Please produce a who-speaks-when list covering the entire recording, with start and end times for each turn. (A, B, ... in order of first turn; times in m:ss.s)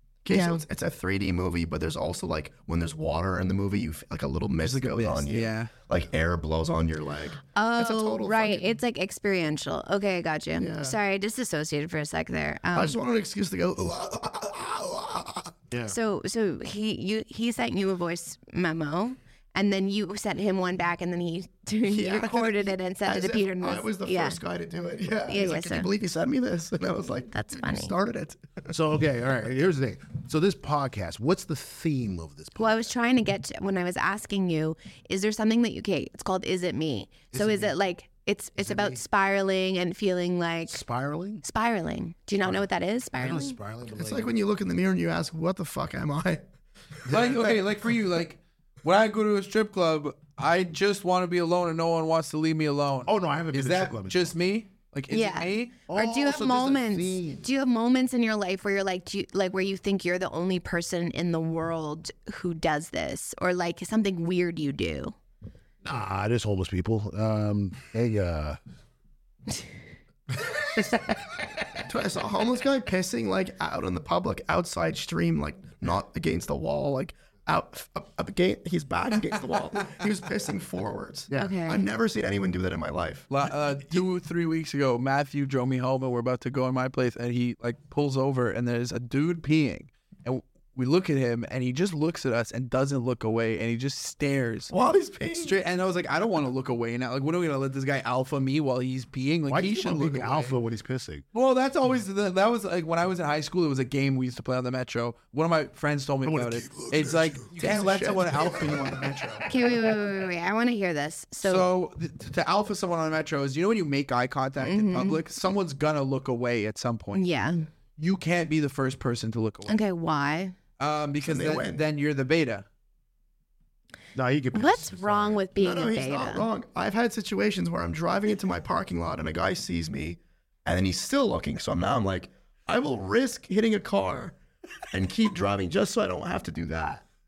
0:00.2-0:08.7 A
0:00.3-0:00.6 B
0:04.9-0:05.7 C
0:07.5-0:13.0 B
0:10.6-0:11.0 A
0:12.7-0:15.5 A
0:15.8-0:24.4 B
0:21.9-0:28.7 A
0:25.3-0:25.9 B
0:27.3-0:27.9 B
0:28.7-0:32.9 D
0:32.6-0:40.8 B
0:37.3-0:37.7 D
0:38.6-0:39.0 D
0:40.7-0:41.4 D
0:41.4-0:43.6 B
0:42.4-0:44.4 D
0:43.9-0:46.4 A
0:47.1-0:47.5 D
0:47.1-0:55.7 C
0:53.0-0:54.3 D
0:55.1-1:05.1 B
0:55.9-0:57.4 D
1:05.8-1:08.6 D
1:11.8-1:23.3 A
1:21.3-1:21.8 B
1:23.3-1:34.7 C
1:34.7-1:35.6 A
1:35.3-1:40.6 C
1:39.5-1:41.2 D
1:41.3-1:49.4 C
1:46.2-1:48.9 D
1:47.6-1:48.0 A
1:49.5-1:51.7 B
1:51.4-1:57.2 C
1:54.6-1:55.2 B
1:57.1-1:57.7 B
1:58.0-1:59.8 C
1:59.7-2:00.5 B
2:00.8-2:02.6 C
2:01.2-2:01.8 A
2:04.1-2:05.4 D
2:04.5-2:06.4 B
2:05.6-2:14.4 A
2:14.9-2:17.0 A